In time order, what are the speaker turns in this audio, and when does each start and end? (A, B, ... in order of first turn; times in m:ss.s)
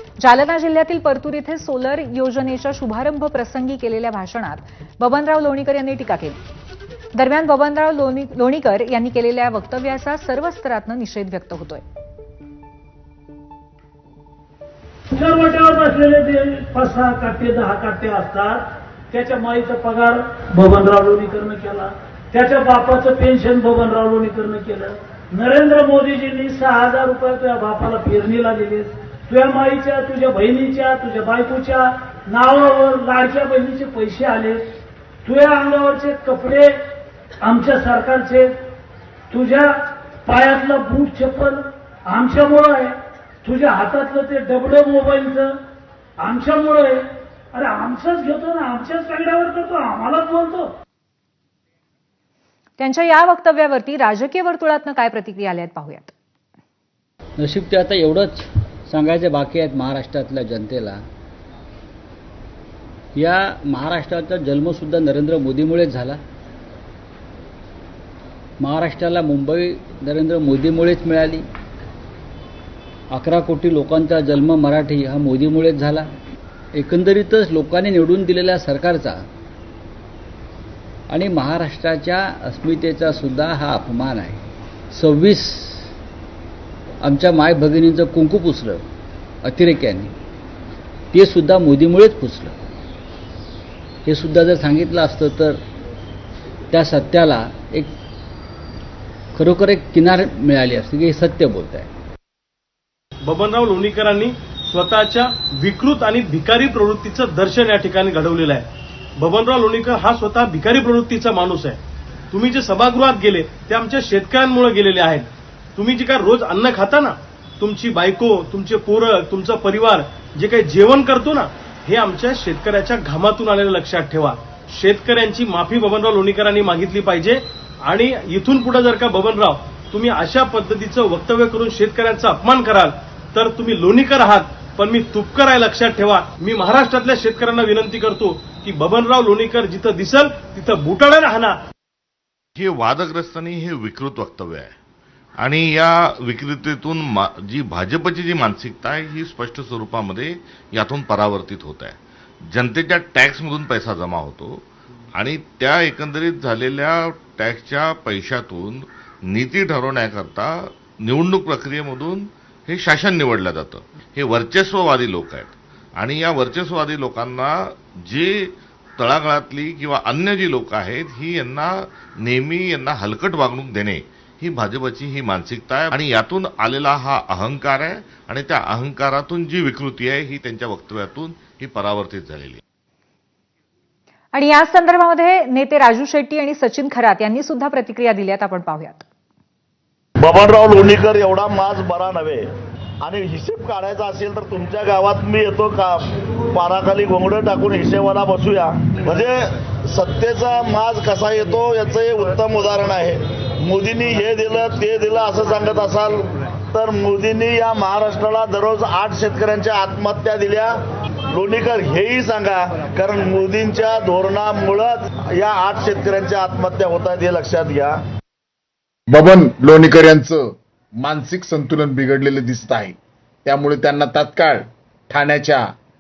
0:00.2-0:06.4 A
0:07.1-0:11.8 A
0:15.2-0:34.6 B
0:35.2-0:36.8 B
0:37.4-0:38.5 B
0:39.3-0:45.6 B
0:46.2-0:50.7 B
0:52.8-0:56.1 A
0:57.4-1:01.0 C
1:03.2-1:06.2 C
1:08.6-1:11.5 C
1:13.1-1:16.1 C
1:16.7-1:19.3 C
1:21.1-1:25.9 C
1:27.0-1:28.9 C
1:29.4-1:30.1 C
1:31.1-1:32.6 C
1:34.0-1:35.6 C
1:36.7-1:38.0 C
1:39.3-1:41.9 C
1:43.2-1:48.7 D
1:49.2-1:51.8 D
1:52.3-2:21.6 D
2:22.6-2:24.7 E
2:25.4-2:32.0 E
2:32.5-2:34.6 E
2:35.1-2:51.7 E
2:52.2-3:02.6 E
3:04.3-3:09.0 A
3:10.2-3:12.5 F
3:13.0-3:30.7 F
3:31.3-3:38.0 F
3:39.1-3:45.7 G